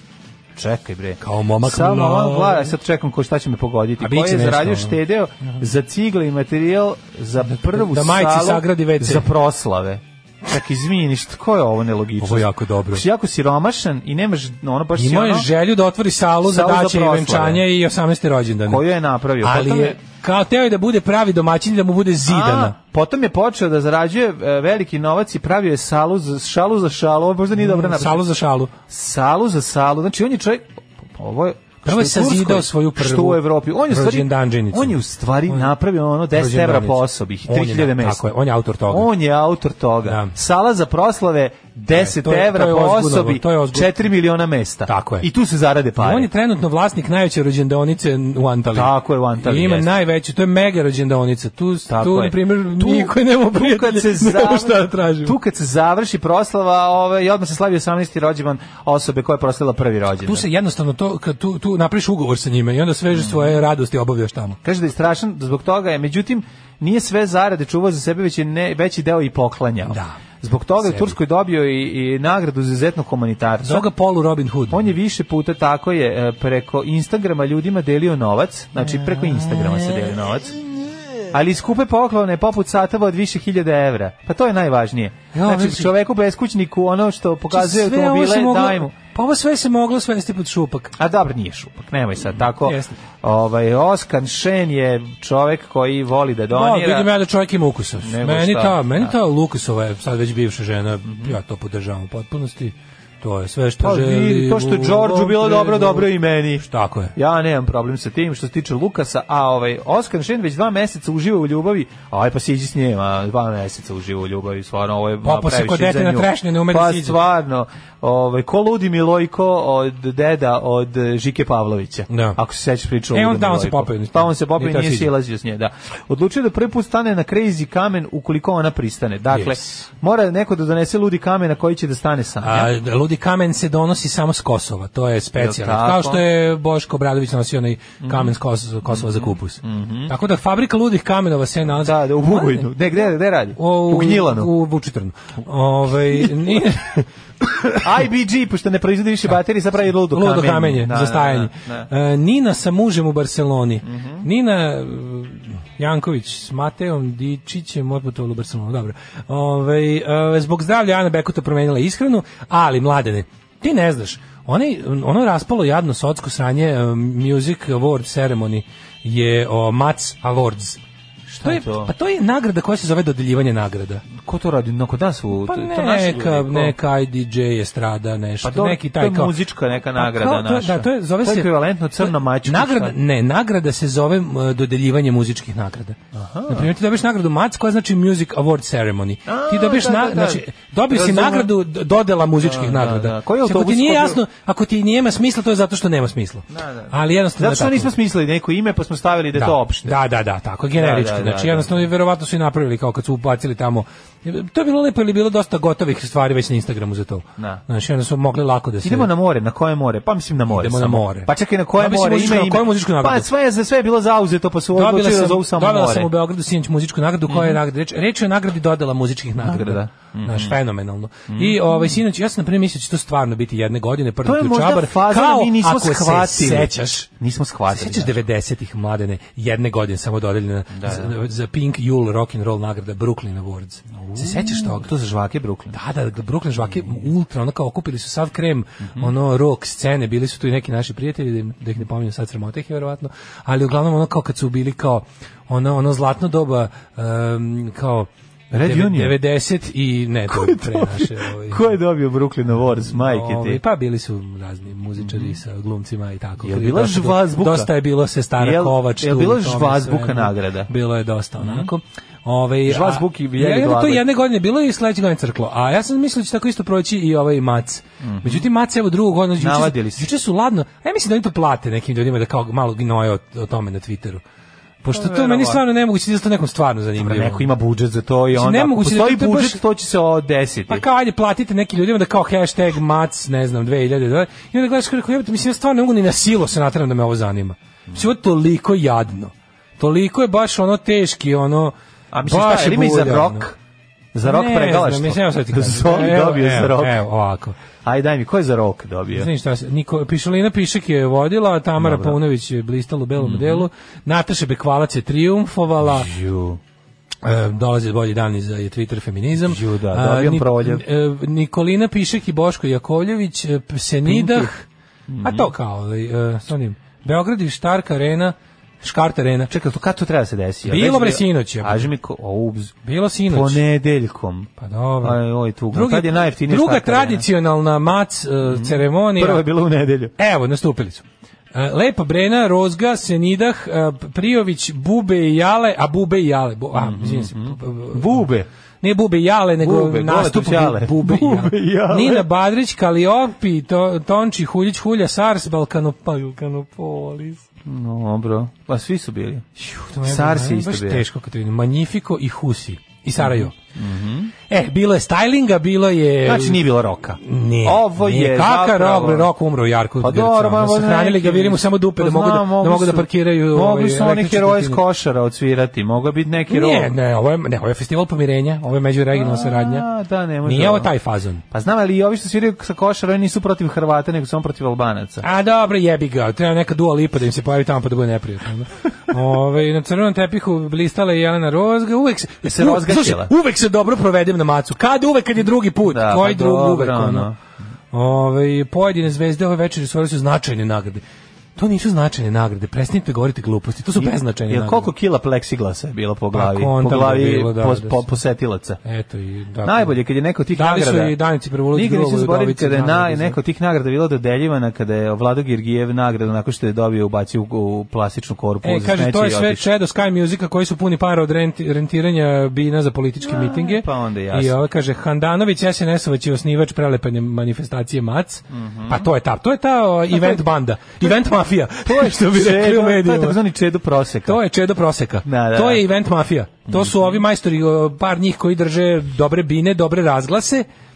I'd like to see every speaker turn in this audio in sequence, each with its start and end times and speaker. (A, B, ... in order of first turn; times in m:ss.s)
0:00.5-0:15.5 A
0:01.2-0:02.7 B
0:04.0-0:05.0 B
0:07.4-0:09.3 B
0:12.2-0:13.0 B
0:15.0-0:18.8 B
0:16.4-0:17.6 A
0:18.6-0:20.0 A
0:19.4-0:22.7 B
0:22.2-0:28.2 A
0:27.6-0:28.7 B
0:28.9-0:38.3 A
0:31.8-0:35.0 B
0:36.3-0:39.1 B
0:38.9-0:46.3 A
0:40.0-0:40.3 B
0:41.9-0:43.9 B
0:44.8-0:45.3 B
0:46.0-0:55.4 B
0:48.7-0:50.0 A
0:51.9-1:00.5 A
1:00.2-1:04.6 B
1:03.1-1:03.6 A
1:04.6-1:13.9 A
1:09.9-1:10.2 B
1:10.8-1:11.2 B
1:13.6-1:14.8 B
1:14.7-1:20.6 A
1:18.8-1:20.1 B
1:21.3-1:28.9 A
1:25.3-1:25.9 B
1:27.5-1:30.9 B
1:31.0-1:37.1 A
1:32.4-1:33.0 B
1:36.5-1:47.1 B
1:38.0-1:39.1 A
1:41.0-1:41.3 A
1:43.8-2:12.7 A
1:55.2-1:57.2 B
2:02.1-2:02.4 B
2:03.1-2:05.1 B
2:09.3-2:09.8 B
2:12.4-2:22.7 B
2:15.4-2:16.2 A
2:18.0-2:18.3 A
2:18.9-2:20.1 A
2:21.8-2:24.5 A
2:23.6-2:27.8 B
2:27.8-2:31.9 A
2:30.1-2:50.8 B
2:33.8-2:34.2 A
2:51.3-2:51.9 A
2:51.4-2:54.0 B
2:54.2-2:56.8 A
2:55.4-2:59.3 B
2:58.4-3:03.0 A
2:59.9-3:06.0 B
3:06.1-3:06.7 A
3:06.5-3:17.9 B
3:09.2-3:11.5 A
3:12.4-3:14.2 A
3:16.5-3:20.0 A
3:19.3-3:29.1 B
3:20.7-3:21.9 A
3:27.4-3:27.6 A
3:28.8-3:36.1 A
3:30.5-3:33.3 B
3:34.7-3:47.1 B
3:37.3-3:37.6 A
3:39.4-3:40.6 A
3:41.3-3:41.9 A
3:44.2-3:48.2 A
3:47.7-3:54.9 B
3:50.7-3:51.1 A
3:53.9-3:55.8 A
3:55.7-4:11.6 B
3:56.6-3:57.0 A
4:08.5-4:09.2 A
4:10.3-4:13.6 A
4:12.9-4:34.2 B
4:15.0-4:15.4 A
4:16.4-4:17.7 A
4:18.4-4:20.7 A
4:21.4-4:21.7 A
4:22.6-4:24.0 A
4:28.0-4:28.5 A
4:29.4-4:30.1 A
4:34.8-4:37.5 B
4:34.9-4:35.6 A
4:37.0-4:40.8 A
4:38.3-4:39.6 B
4:40.7-4:53.5 B
4:52.1-4:53.5 A
4:54.1-4:57.0 A
4:54.2-4:57.6 B
4:57.8-4:59.3 A
4:59.1-5:06.1 B
5:01.8-5:02.2 A
5:03.2-5:03.7 A
5:05.8-5:06.6 A
5:07.2-5:14.6 B
5:09.4-5:10.8 A
5:14.0-5:14.5 A
5:15.1-5:15.5 A
5:15.2-5:19.5 B
5:19.5-5:24.5 A
5:20.6-5:21.9 B
5:22.8-5:23.6 B
5:24.6-5:25.2 B
5:25.0-5:27.3 A
5:25.7-5:29.4 B
5:28.4-5:30.1 A
5:30.2-5:38.2 B
5:36.7-5:38.5 A
5:38.8-5:47.4 B
5:39.6-5:42.3 A
5:47.6-5:49.5 A
5:49.6-5:53.5 B
5:50.0-5:51.0 A
5:53.2-5:54.3 A
5:54.5-5:56.6 B
5:56.2-5:59.3 A
5:57.2-6:04.8 B
6:00.0-6:06.9 A
6:06.5-6:09.9 B
6:09.1-6:10.9 A
6:10.4-6:11.4 B
6:11.5-6:15.2 A
6:15.2-6:27.3 B
6:22.5-6:23.3 A
6:25.8-6:27.4 A
6:27.9-6:31.0 B
6:31.6-6:34.9 B
6:34.0-6:38.8 A
6:36.3-6:38.0 B
6:38.8-6:40.0 B
6:39.6-6:41.2 A
6:40.5-6:43.4 B
6:41.7-6:49.6 A
6:48.6-7:03.4 B
6:53.2-6:54.6 A
6:58.5-6:59.1 A
7:00.1-7:00.4 A
7:01.8-7:04.4 A
7:04.2-7:10.6 B
7:05.2-7:05.8 A
7:06.7-7:07.2 A